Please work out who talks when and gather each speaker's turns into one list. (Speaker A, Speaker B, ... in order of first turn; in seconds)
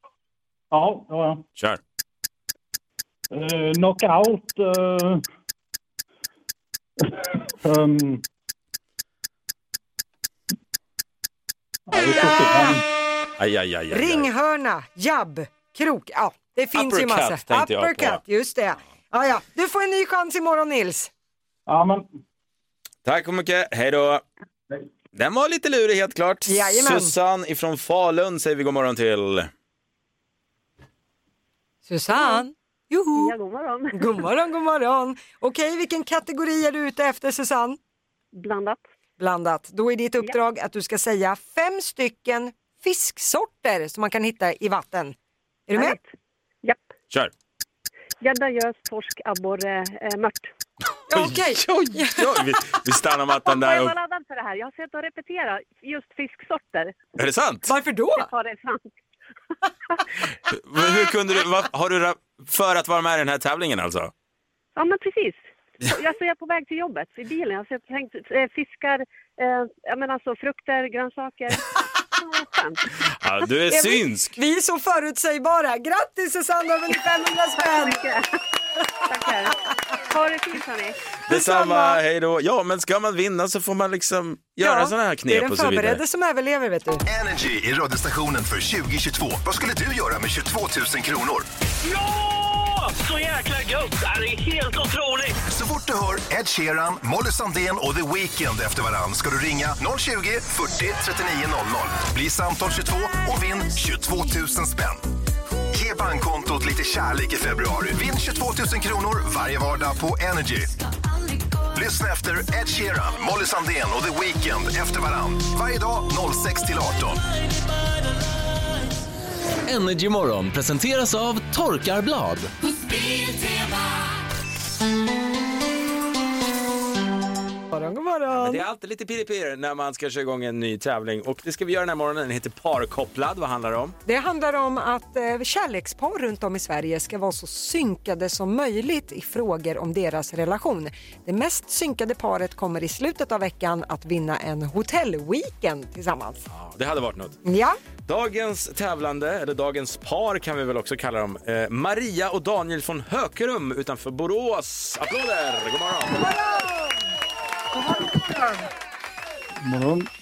Speaker A: 0.7-1.4, 3.3-5.2, 7.0-8.2, 11.9-12.8, 21.7-22.1, 159.6-160.1
Speaker B: 11.9-12.8, 13.9-21.1, 26.4-27.1, 31.9-33.3, 33.9-37.8, 39.2-45.1, 45.7-46.0, 51.1-52.4, 57.7-58.3, 73.7-78.0, 81.3-82.0, 84.6-87.0, 127.7-128.6, 134.1-146.4, 147.4-147.8, 156.2-157.0
Speaker C: 13.4-14.3, 16.7-18.2, 23.0-24.2, 25.1-29.5, 51.1-53.9, 57.2-57.7, 60.5-64.1, 73.2-74.4, 81.3-86.0, 128.3-133.9, 146.5-147.4, 148.1-156.2
Speaker D: 32.2-32.4, 33.1-34.2, 38.3-38.8, 45.8-46.1, 48.2-50.5, 53.5-56.9, 58.2-58.9, 64.8-72.8, 77.6-78.3, 79.1-81.0
Speaker E: 87.1-91.5, 95.5-105.0, 105.7-110.7, 111.7-117.2
Speaker F: 91.8-95.4
Speaker G: 119.7-122.5